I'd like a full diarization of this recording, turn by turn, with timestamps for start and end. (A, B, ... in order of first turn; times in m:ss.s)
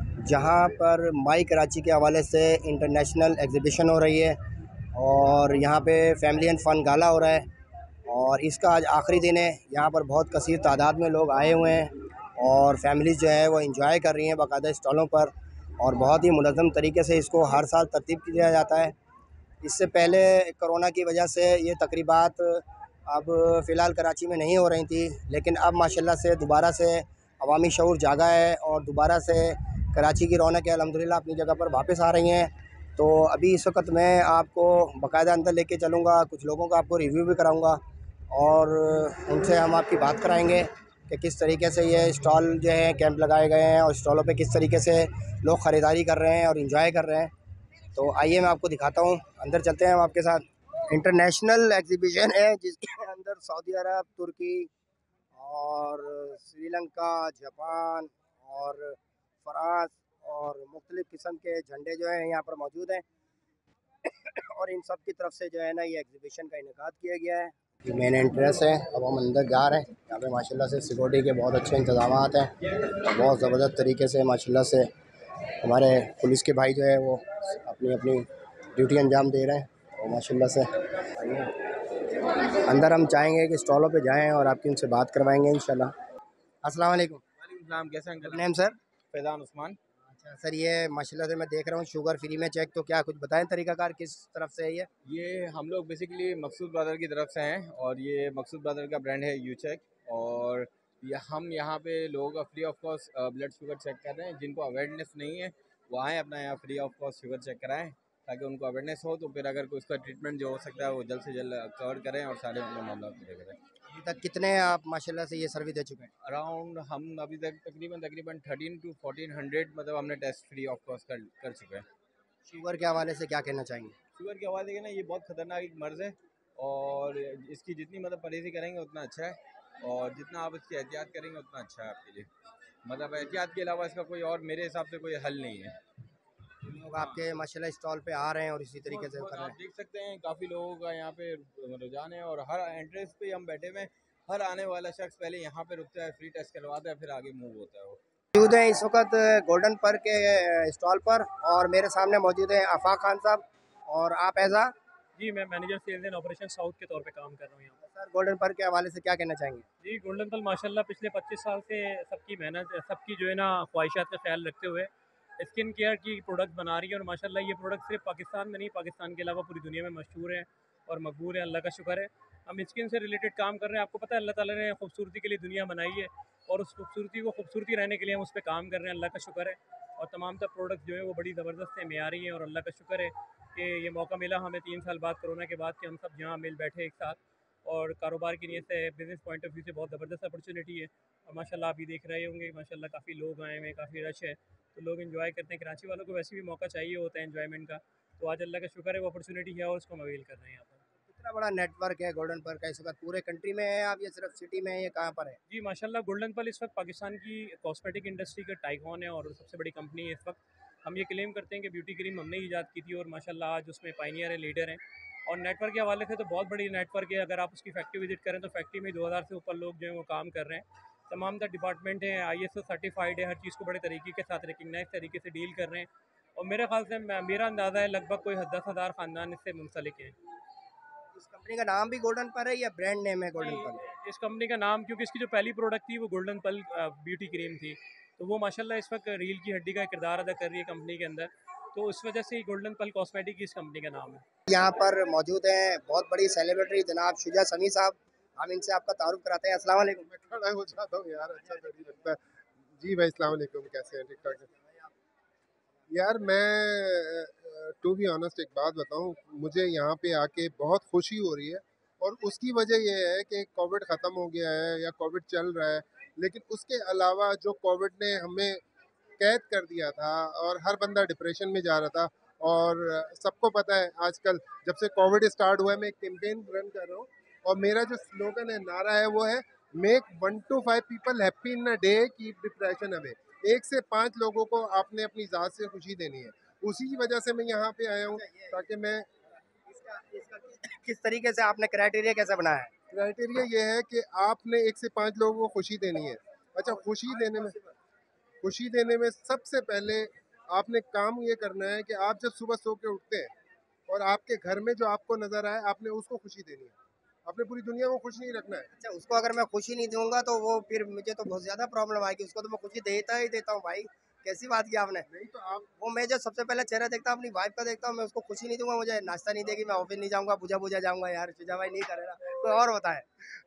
0:00.2-0:04.4 A
0:04.9-0:07.5 A
0:08.1-0:18.9 A
0:19.6-0:37.8 A
0:38.3-0:47.3 A
0:48.0-0:54.7 A
0:55.4-1:03.0 A
1:04.1-1:14.9 A
1:15.6-1:21.5 A
1:22.5-1:25.9 A
1:26.6-1:27.2 A
1:27.4-1:28.3 B
1:28.2-1:28.8 A
1:29.1-1:29.8 B
1:30.0-1:34.9 A
1:35.1-1:53.6 B
1:53.9-1:56.1 A
1:56.2-2:01.9 B
2:02.5-2:04.0 A
2:04.2-2:12.3 B
2:12.9-2:15.8 B
2:16.7-2:19.6 A
2:19.0-2:28.0 B
2:28.4-2:34.7 A
2:35.2-2:37.8 C
2:37.8-2:39.7 A
2:39.8-3:20.8 C
3:21.1-3:25.4 A
3:25.5-3:50.2 C
3:51.2-3:53.8 A
3:53.4-4:04.2 C
4:04.5-4:10.1 A
4:10.1-4:12.2 D
4:12.8-4:14.4 D
4:14.2-4:14.9 A
4:15.9-4:28.6 D
4:29.2-4:49.1 D
4:48.1-4:48.6 A
4:49.7-4:52.7 A
4:52.9-4:57.6 D
4:57.1-4:57.5 A
4:58.4-5:03.3 D
5:03.9-5:06.8 D
5:07.3-5:08.7 D
5:08.8-5:15.1 A
5:15.1-5:15.7 D
5:15.8-5:23.1 A